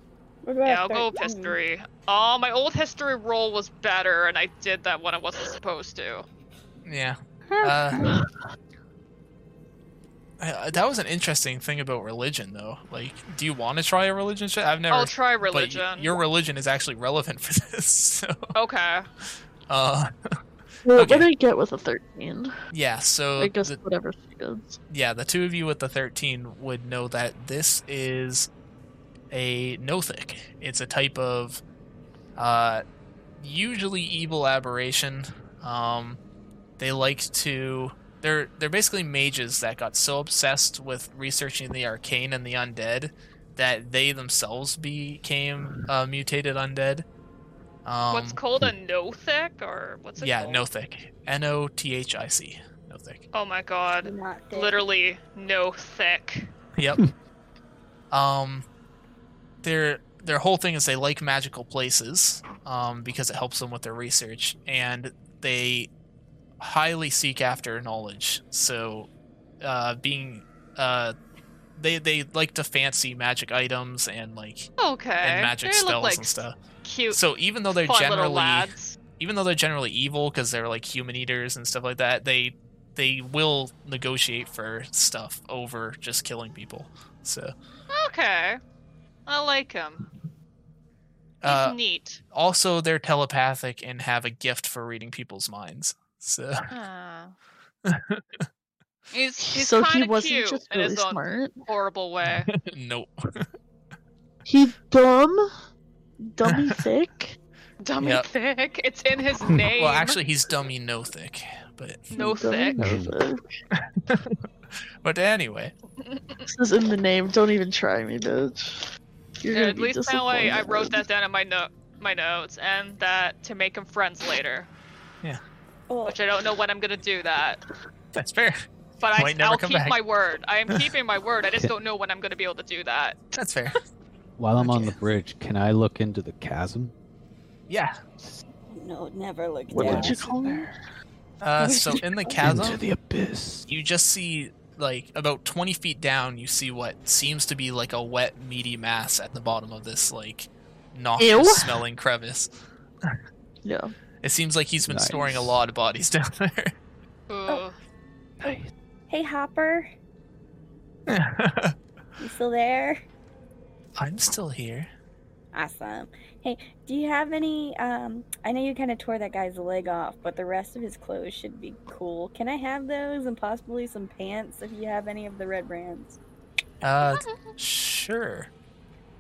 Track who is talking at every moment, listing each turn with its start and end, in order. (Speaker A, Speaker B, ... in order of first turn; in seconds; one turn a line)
Speaker A: 0.4-1.6
Speaker B: 0.7-6.3
Speaker C: 6.9-8.2
Speaker C: 10.4-18.5
Speaker B: 14.9-16.2
Speaker B: 18.6-19.1
Speaker C: 19.7-20.1
Speaker D: 20.9-22.5
Speaker C: 20.9-21.3
Speaker C: 22.7-23.8
Speaker D: 23.4-24.8
Speaker C: 24.9-28.5
Speaker C: 29.3-31.6
Speaker C: 32.4-32.8
Speaker C: 33.4-36.2
Speaker C: 36.8-47.1
Speaker C: 47.9-48.4
Speaker B: 48.1-50.7
Speaker C: 50.2-53.2
Speaker B: 53.3-56.5
Speaker A: 54.0-54.8
Speaker C: 56.8-57.0
Speaker C: 58.1-58.7
Speaker C: 59.6-65.9
Speaker C: 66.6-69.1
Speaker C: 69.6-71.2
Speaker C: 71.8-74.7
Speaker B: 74.8-77.2
Speaker C: 75.2-76.5
Speaker C: 77.1-87.5
Speaker B: 77.7-79.0
Speaker B: 87.9-88.6
Speaker B: 89.3-90.1
Speaker C: 91.4-91.8
Speaker B: 91.5-92.2
Speaker C: 92.3-96.7
Speaker B: 96.7-97.3
Speaker C: 97.9-98.2
Speaker B: 99.1-102.5
Speaker D: 99.4-101.6
Speaker C: 102.5-103.5
Speaker D: 104.5-105.4
Speaker D: 106.2-107.4
Speaker C: 106.5-106.8
Speaker B: 107.8-110.2
Speaker C: 108.0-108.3
Speaker C: 109.8-112.1
Speaker B: 112.1-112.8
Speaker D: 112.2-113.4
Speaker E: 112.8-113.2
Speaker C: 113.8-114.4
Speaker C: 115.0-115.7
Speaker B: 116.0-116.5
Speaker D: 116.5-118.9
Speaker D: 119.4-121.0
Speaker B: 119.5-124.7
Speaker A: 125.9-126.2
Speaker B: 126.1-127.6
Speaker C: 128.2-128.7
Speaker B: 129.0-133.3
Speaker C: 129.2-130.0
Speaker C: 133.3-133.8
Speaker E: 134.4-136.9
Speaker C: 134.6-135.0
Speaker C: 137.7-138.0
Speaker A: 138.7-140.5
Speaker D: 139.7-140.8
Speaker E: 139.8-140.2
Speaker C: 141.4-142.8
Speaker A: 141.6-142.6
Speaker E: 142.4-143.7
Speaker C: 143.7-152.5
Speaker D: 151.2-151.8
Speaker D: 153.6-153.9
Speaker C: 154.2-156.7
Speaker E: 154.9-155.6
Speaker B: 157.3-157.8
Speaker A: 159.1-159.9
Speaker C: 161.1-161.8
Speaker A: 162.2-163.0
Speaker C: 164.0-164.9
Speaker A: 165.5-176.2
Speaker C: 176.8-178.5
Speaker B: 177.1-177.5